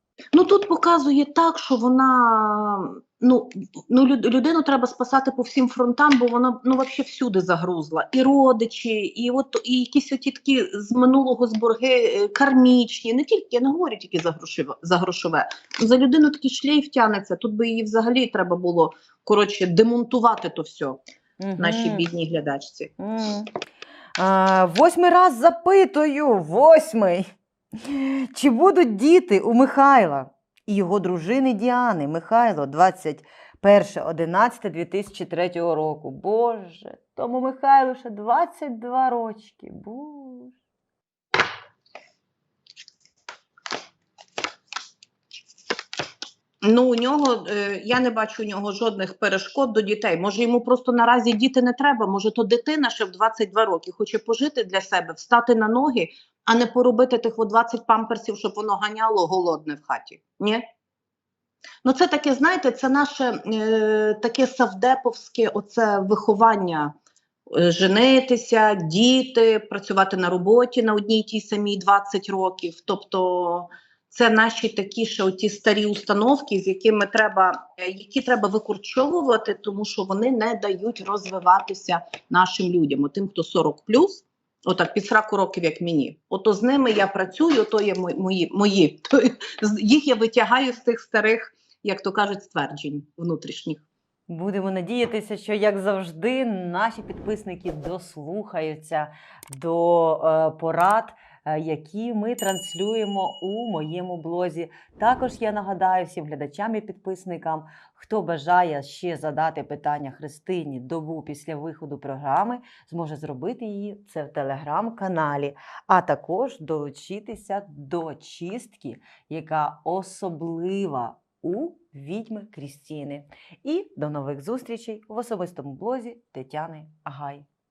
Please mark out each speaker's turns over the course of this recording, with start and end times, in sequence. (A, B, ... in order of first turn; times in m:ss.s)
0:00.3-0:21.0 A
0:21.4-0:22.0 B
0:21.6-0:22.9 A
0:23.0-0:23.5 B
0:24.2-0:27.2 B
0:27.8-0:40.5 B
0:46.6-1:00.6 A
1:01.8-1:06.9 A
1:07.5-1:33.8 A
1:34.3-2:07.4 B